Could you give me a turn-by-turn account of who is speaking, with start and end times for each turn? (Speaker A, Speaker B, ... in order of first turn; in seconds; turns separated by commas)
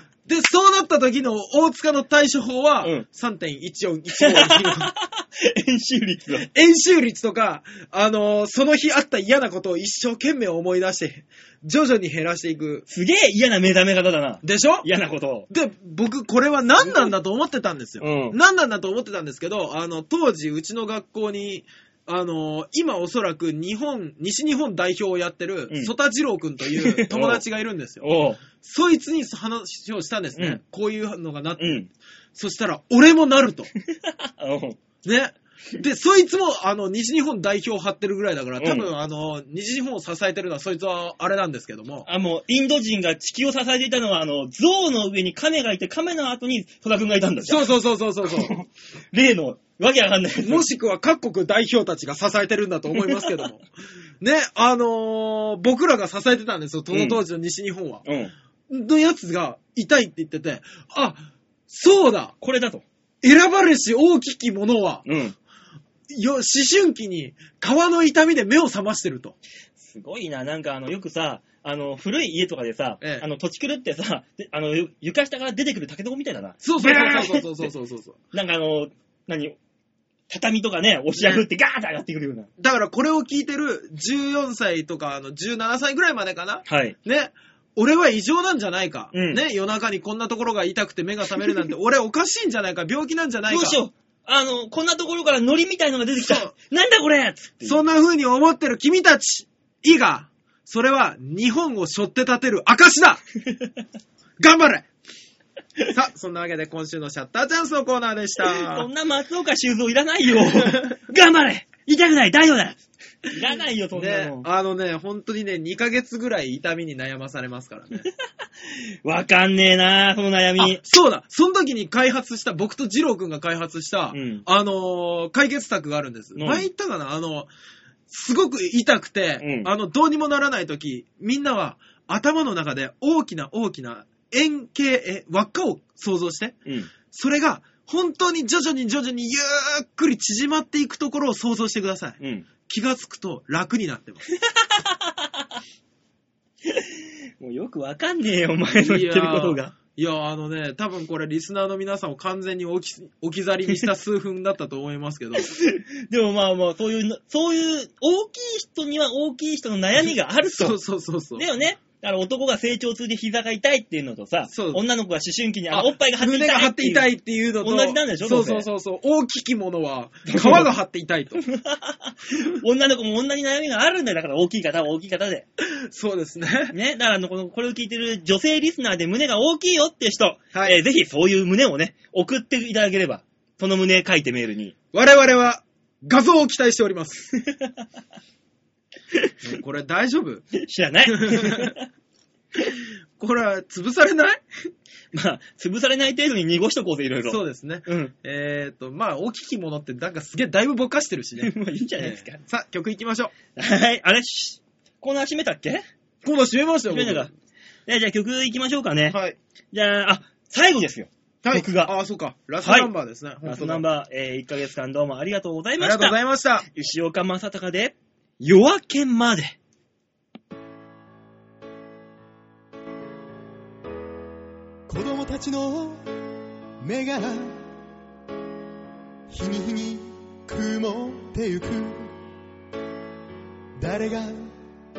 Speaker A: 0.2-4.9, Speaker B: 4.1-6.5, Speaker A: 6.4-12.8, Speaker B: 12.9-15.5, Speaker A: 14.4-14.9, Speaker A: 15.5-31.8, Speaker B: 18.0-18.4, Speaker B: 26.7-27.4, Speaker B: 28.0-28.4, Speaker B: 31.6-31.9, Speaker A: 32.3-33.7, Speaker B: 33.9-34.8, Speaker A: 35.0-42.1, Speaker B: 38.6-38.9, Speaker B: 42.0-50.7, Speaker A: 47.4-48.5, Speaker A: 50.4-53.6, Speaker B: 53.0-53.3, Speaker A: 54.2-58.0, Speaker B: 56.9-57.2, Speaker B: 58.0-58.3, Speaker A: 58.7-62.3, Speaker B: 62.4-62.8, Speaker A: 63.2-65.0, Speaker B: 65.0-65.3, Speaker A: 66.1-69.3, Speaker B: 69.8-77.7, Speaker A: 73.0-73.2, Speaker A: 76.6-78.2, Speaker B: 78.3-79.5, Speaker B: 80.3-82.5, Speaker A: 81.2-81.4, Speaker A: 82.6-93.8, Speaker B: 86.7-87.0, Speaker B: 89.1-89.4, Speaker B: 93.5-97.8, Speaker A: 96.2-96.5, Speaker A: 97.6-103.2, Speaker A: 104.4-104.9, Speaker A: 105.9-108.9, Speaker B: 108.4-114.5, Speaker A: 110.4-110.9, Speaker A: 113.9-118.0, Speaker B: 118.7-120.8, Speaker A: 120.6-127.5, Speaker B: 124.1-124.5, Speaker B: 126.3-126.7, Speaker A: 128.1-144.2, Speaker B: 129.4-129.7, Speaker B: 136.7-136.9, Speaker B: 142.2-142.5, Speaker B: 144.3-145.4, Speaker B: 146.6-149.7, Speaker A: 148.8-155.5, Speaker B: 155.3-160.8, Speaker A: 160.5-161.4, Speaker B: 161.3-168.7, Speaker A: 164.5-164.8, Speaker A: 165.7-171.4, Speaker B: 170.2-170.7, Speaker B: 171.4-175.4, Speaker A: 175.6-176.7, Speaker B: 176.7-184.7, Speaker A: 180.5-180.8, Speaker A: 184.9-187.3, Speaker B: 187.4-187.7, Speaker A: 189.4-190.5, Speaker B: 190.5-191.8, Speaker A: 191.1-191.7, Speaker A: 193.2-194.4, Speaker B: 195.1-198.1, Speaker A: 197.2-203.3, Speaker B: 201.4-202.4, Speaker B: 203.5-205.8, Speaker A: 206.2-207.3, Speaker B: 206.9-207.3, Speaker B: 207.9-209.2, Speaker A: 209.1-209.4, Speaker B: 209.7-211.9, Speaker A: 211.4-213.8, Speaker B: 212.6-212.9, Speaker B: 213.4-219.6, Speaker A: 215.8-216.7, Speaker C: 224.9-226.0, Speaker C: 226.8-227.6, Speaker C: 229.3-232.1, Speaker C: 233.8-234.5